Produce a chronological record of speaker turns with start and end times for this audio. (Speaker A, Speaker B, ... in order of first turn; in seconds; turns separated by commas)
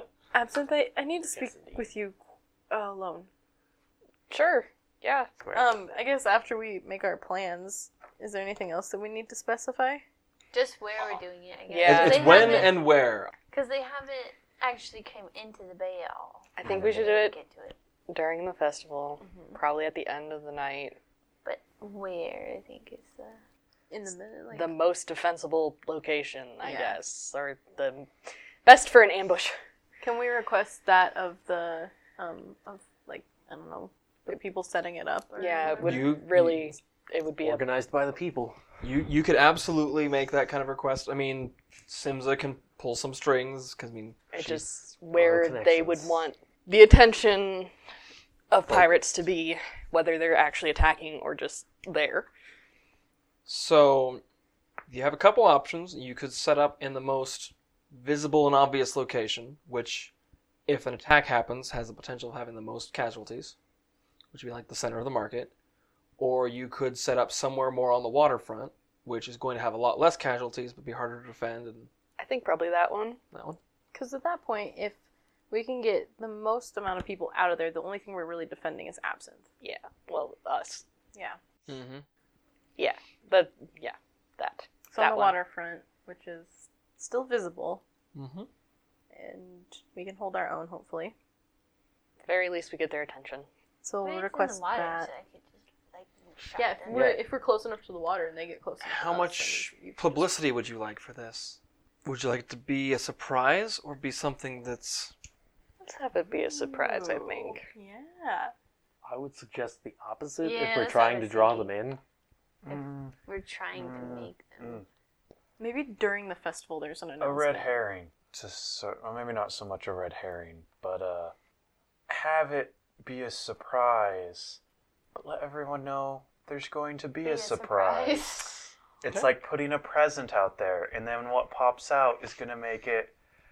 Speaker A: 0.3-2.2, Speaker B: 1.3-1.8, Speaker A: 2.7-3.3, Speaker C: 4.3-5.3, Speaker B: 5.4-5.8, Speaker A: 5.5-10.0, Speaker D: 10.5-12.8, Speaker C: 11.7-12.7, Speaker E: 11.8-13.3, Speaker D: 13.5-17.8, Speaker C: 16.6-17.4, Speaker F: 16.7-17.1, Speaker C: 18.1-21.0, Speaker A: 19.2-19.6, Speaker D: 21.4-23.4, Speaker A: 23.9-24.8, Speaker C: 24.5-28.1, Speaker A: 26.6-27.0, Speaker C: 28.6-29.6, Speaker A: 30.0-36.1, Speaker C: 35.4-37.6, Speaker D: 35.5-36.0, Speaker E: 35.8-36.8, Speaker B: 37.4-38.6, Speaker E: 38.8-44.5, Speaker C: 44.3-47.7, Speaker B: 45.1-46.2, Speaker C: 48.5-52.3, Speaker E: 53.5-54.2, Speaker E: 54.9-60.1, Speaker E: 60.7-63.5, Speaker E: 64.3-65.5, Speaker E: 66.2-71.9, Speaker C: 72.2-73.2, Speaker E: 73.3-73.6, Speaker A: 73.9-75.0, Speaker A: 75.5-79.5, Speaker C: 79.6-80.8, Speaker A: 81.1-81.4, Speaker E: 81.7-82.0, Speaker C: 82.8-85.4, Speaker A: 84.9-87.8, Speaker E: 88.1-88.5, Speaker A: 89.1-91.1, Speaker C: 92.2-93.5, Speaker A: 93.8-95.1, Speaker D: 94.0-97.1, Speaker A: 96.5-100.3, Speaker B: 96.9-97.2, Speaker E: 98.8-105.1, Speaker C: 105.8-107.6, Speaker A: 106.3-108.5, Speaker B: 109.0-112.0, Speaker D: 110.4-111.7, Speaker F: 112.6-113.2, Speaker D: 112.7-114.8, Speaker F: 113.7-114.8, Speaker A: 115.6-117.7, Speaker F: 117.2-121.3, Speaker F: 122.1-124.6, Speaker F: 125.1-128.4, Speaker D: 127.2-128.7, Speaker F: 129.0-133.2